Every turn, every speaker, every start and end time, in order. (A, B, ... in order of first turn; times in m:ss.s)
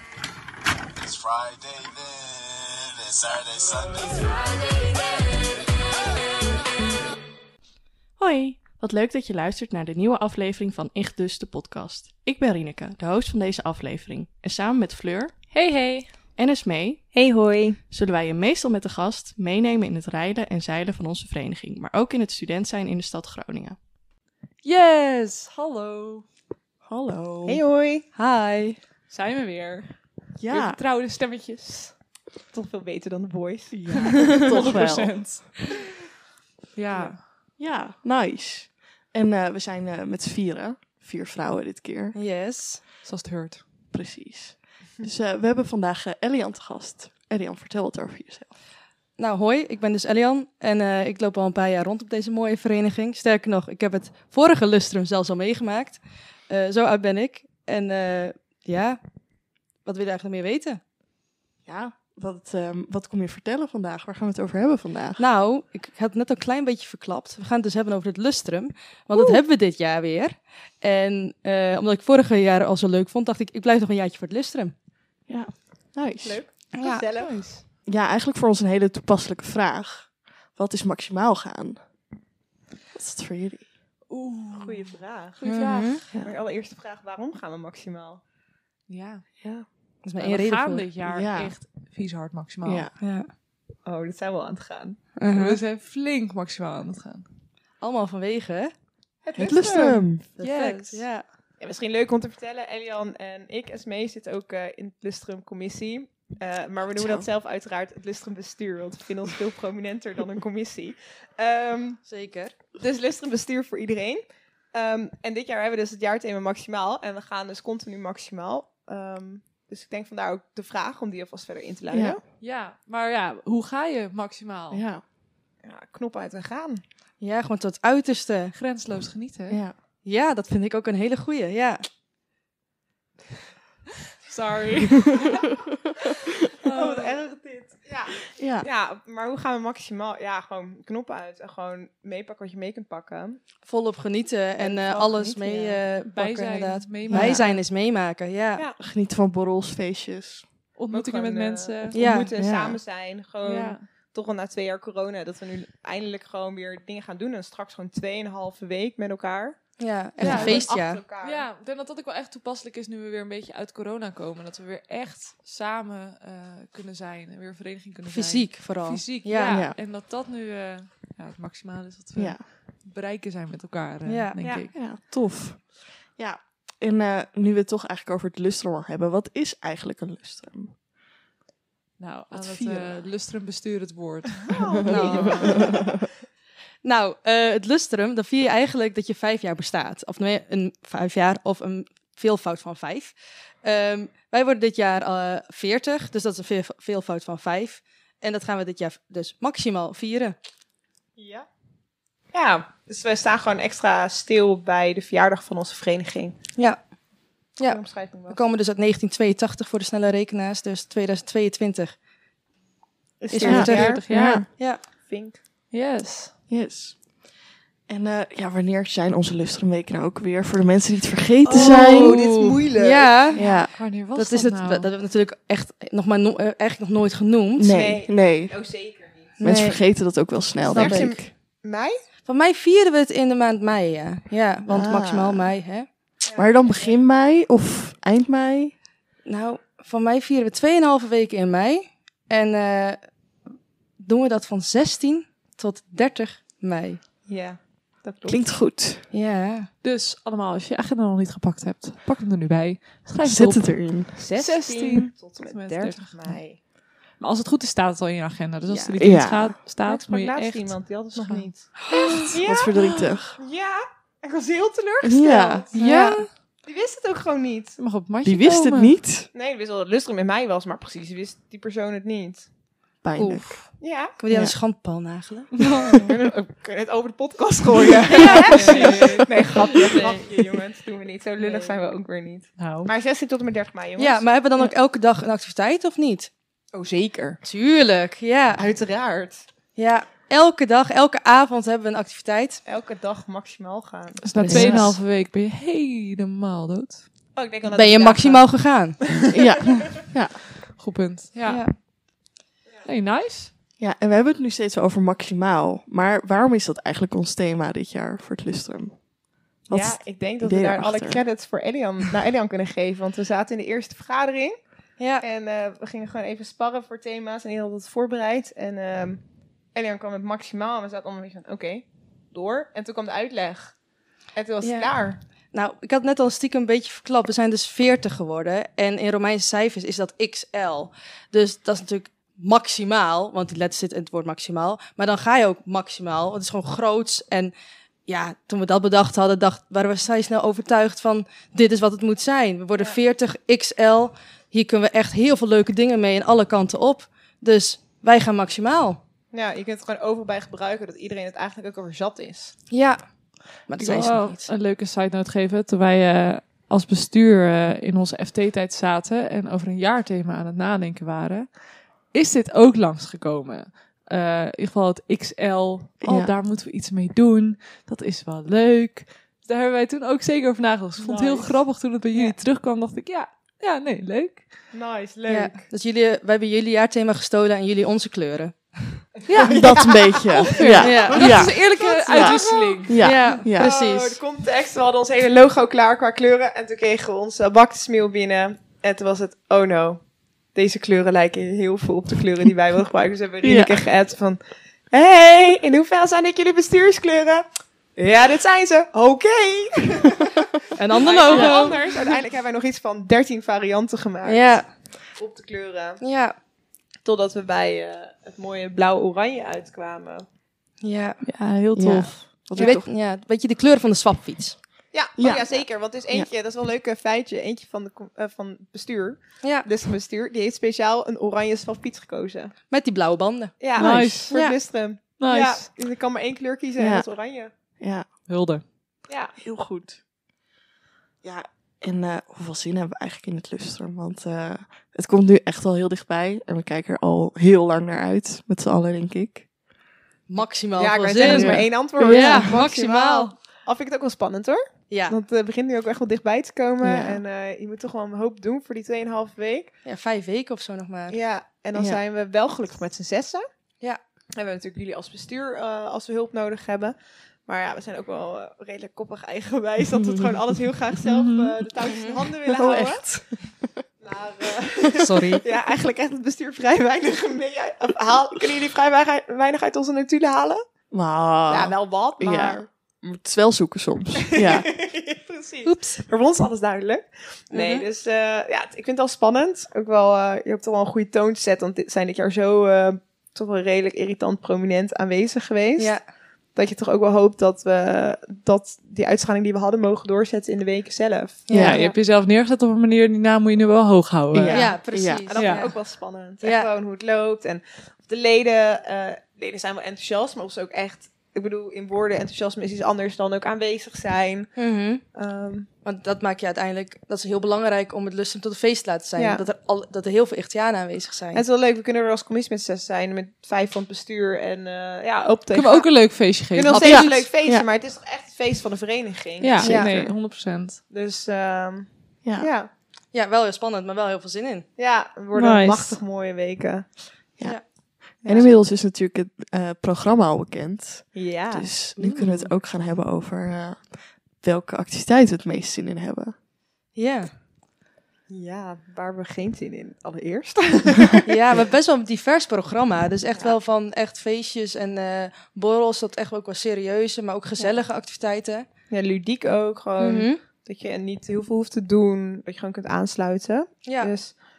0:01.0-0:04.7 A
0:08.2-0:15.4 B
0:15.5-0:16.1 C
0:16.4-0:17.1 B
0:17.1-0:17.8 D
0:17.9-0:23.8 B
0:24.6-0:26.3 C
0:26.8-0:27.6 B
0:27.5-0:28.0 D
0:28.2-0:28.8 E
0:29.1-0:32.0 C
0:30.4-0:30.8 B
0:32.5-0:34.5 D
0:33.7-0:35.5 B
0:34.2-0:35.7 C
0:36.7-0:37.2 C
0:37.6-0:42.2 B
0:42.2-0:42.8 E
0:43.0-0:43.6 C
0:43.9-0:48.5 B
0:49.2-0:59.0 E
0:59.8-1:00.8 E
1:01.6-1:05.2 B
1:05.2-1:14.7 E
1:15.3-1:16.4 B
1:16.2-1:17.4 D
1:16.8-1:17.0 E
1:17.2-1:17.6 C
1:17.8-1:21.8 B
1:23.0-1:23.7 B
1:24.1-1:26.0 C
1:24.5-1:28.2 D
1:25.4-1:26.0 E
1:28.9-1:29.3 C
1:29.4-1:29.7 B
1:30.0-1:30.9 E
1:30.2-1:32.9 C
1:31.0-1:31.6 B
1:32.6-1:32.9 B
1:33.0-1:33.3 E
1:33.8-1:35.1 D
1:35.2-1:35.6 E
1:35.3-1:37.2 C
1:37.8-1:38.7 E
1:39.2-1:40.1 D
1:39.4-1:40.2 B
1:40.4-1:41.0 C
1:40.4-1:41.2 E
1:41.6-1:52.0 D
1:47.0-1:47.3 B
1:52.1-1:52.6 E
1:52.8-2:02.2 D
2:01.9-2:02.2 B
2:02.4-2:04.8 C
2:04.7-2:05.0 B
2:05.6-2:06.8 D
2:07.2-2:08.6 E
2:08.6-2:09.6 C
2:09.5-2:09.8 B
2:10.0-2:11.8 E
2:14.2-2:15.4 C
2:16.6-2:17.2 C
2:16.7-2:23.4 D
2:18.4-2:18.7 B
2:23.6-2:28.6 E
2:24.6-2:25.8 D
2:26.1-2:27.6 C
2:27.1-2:27.4 B
2:28.8-2:30.5 B
2:30.8-2:32.0 C
2:30.9-2:41.4 D
2:31.9-2:32.3 E
2:32.4-2:32.8 B
2:33.4-2:33.8 C
2:39.8-2:41.0 E
2:40.2-2:40.7 C
2:41.2-2:54.7 C
2:48.1-2:49.6 E
2:49.5-2:49.8 B
2:52.2-2:52.4 B
2:54.1-2:54.4 E
2:54.7-3:00.8 B
3:02.0-3:05.5 C
3:02.3-3:03.1 B
3:04.4-3:05.9 D
3:04.9-3:05.7 E
3:05.0-3:05.9 B
3:06.8-3:20.4 E
3:21.2-3:21.5 D
3:22.3-3:26.4 D
3:26.6-3:32.0 E
3:27.6-3:28.4 D
3:33.2-3:34.0 D
3:33.3-3:34.0 E
3:33.4-3:34.5 B
3:33.4-3:34.5 C
3:34.8-3:35.4 D
3:35.7-3:36.3 C
3:36.5-3:37.1 B
3:37.9-3:42.2 B
3:41.4-3:43.4 D
3:41.6-3:43.4 E
3:43.4-3:43.8 B
3:43.5-3:44.9 C
3:44.1-3:47.7 E
3:47.6-3:48.6 B
3:47.6-3:49.3 D
3:49.4-3:51.2 E
3:49.4-3:51.2 B
3:50.7-3:52.0 D
3:52.2-3:55.9 E
3:54.7-3:55.5 B
3:56.3-3:57.0 D
3:56.4-3:58.7 B
3:59.3-4:03.0 E
4:04.0-4:07.0 E
4:07.3-4:08.4 D
4:08.3-4:09.0 B
4:09.1-4:09.7 E
4:09.8-4:16.6 C
4:13.2-4:14.1 B
4:14.2-4:16.6 D
4:17.2-4:21.6 C
4:18.7-4:19.0 E
4:19.0-4:19.6 B
4:19.8-4:25.7 D
4:21.8-4:22.4 E
4:22.4-4:23.4 B
4:25.0-4:25.7 B
4:25.7-4:26.3 C
4:25.7-4:26.3 E
4:26.6-4:27.8 D
4:27.8-4:29.0 C
4:28.2-4:29.3 B
4:29.3-4:32.5 D
4:33.0-4:33.7 B
4:33.2-4:36.0 E
4:33.8-4:34.1 D
4:34.3-4:34.6 B
4:35.6-4:36.0 C
4:36.0-4:44.3 D
4:38.1-4:40.3 E
4:38.2-4:39.5 C
4:41.4-4:41.8 E
4:42.6-4:42.9 C
4:44.0-4:46.3 E
4:46.7-4:47.4 D
4:47.4-4:48.6 E
4:48.6-4:49.4 D
4:49.8-4:52.6 E
4:52.6-4:54.9 D
4:54.2-4:57.1 C
4:54.4-4:55.0 B
4:57.4-4:58.9 D
4:57.7-4:59.0 E
4:59.3-5:00.4 B
5:00.7-5:01.8 C
5:01.5-5:01.7 E
5:02.8-5:03.5 C
5:03.8-5:09.1 B
5:09.6-5:11.2 B
5:09.7-5:14.7 D
5:15.0-5:15.2 E
5:15.2-5:23.8 D
5:24.3-5:25.2 D
5:24.6-5:24.9 E
5:25.5-5:37.5 E
5:38.1-5:49.0 E
5:49.3-5:52.6 D
5:52.7-5:54.5 E
5:53.8-6:14.6 C
6:06.0-6:06.3 B
6:11.0-6:11.6 D
6:14.7-6:15.6 D
6:15.3-6:19.0 E
6:19.3-6:23.3 C
6:19.4-6:21.1 D
6:19.4-6:23.7 B
6:20.8-6:21.4 E
6:21.8-6:37.4 D
6:23.0-6:24.2 E
6:33.4-6:33.8 B
6:38.0-6:40.3 D
6:40.8-6:42.0 E
6:40.9-6:46.0 D
6:41.3-6:41.8 C
6:44.2-6:44.7 E
6:46.0-6:46.4 E
6:47.0-6:50.2 D
6:50.8-6:51.2 E
6:51.2-6:52.5 C
6:51.8-6:52.9 B
6:52.6-6:54.6 E
6:54.9-7:02.6 D
6:55.2-6:56.3 B
6:59.4-6:59.7 E
7:02.7-7:04.6 E
7:03.6-7:07.5 D
7:03.8-7:04.3 C
7:05.2-7:05.7 C
7:06.8-7:07.1 B
7:07.8-7:08.1 B
7:08.3-7:08.6 C
7:09.1-7:09.3 D
7:09.4-7:10.0 B
7:11.2-7:19.5 B
7:20.3-7:23.3 E
7:20.8-7:29.7 D
7:21.2-7:22.6 B
7:24.9-7:25.2 E
7:26.8-7:27.2 B
7:29.8-7:31.2 E
7:31.1-7:33.4 D
7:31.7-7:32.0 B
7:34.4-7:43.4 D
7:41.0-7:41.6 C
7:41.8-7:42.2 E
7:42.5-7:43.8 B
7:44.0-7:50.6 D
7:45.0-7:45.4 C
7:50.9-7:54.7 B
7:51.5-7:52.7 D
7:54.3-8:12.0 D
7:55.6-7:56.0 E
7:57.5-7:57.8 E
8:05.8-8:06.0 E
8:11.5-8:11.8 E
8:11.5-8:11.8 B
8:11.5-8:14.7 C
8:14.3-8:15.2 B
8:14.5-8:15.8 E
8:15.0-8:24.5 D
8:15.4-8:15.6 C
8:16.4-8:16.7 E
8:24.6-8:25.0 E
8:25.0-8:25.7 D
8:25.8-8:31.4 E
8:29.2-8:29.4 D
8:31.3-8:42.7 D
8:35.5-8:36.9 C
8:36.7-8:37.3 E
8:36.8-8:37.7 B
8:39.4-8:40.8 C
8:39.6-8:39.9 E
8:39.6-8:40.1 B
8:42.2-8:42.5 B
8:43.1-8:44.7 E
8:44.8-8:47.0 D
8:45.3-8:46.0 C
8:47.4-8:56.3 B
8:47.4-8:48.5 E
8:48.2-8:48.5 D
8:51.1-8:51.8 D
8:52.0-8:52.4 E
8:57.0-8:57.3 E
8:58.3-9:01.2 D
9:01.3-9:08.7 E
9:08.9-9:14.4 D
9:10.0-9:10.4 E
9:13.9-9:14.1 E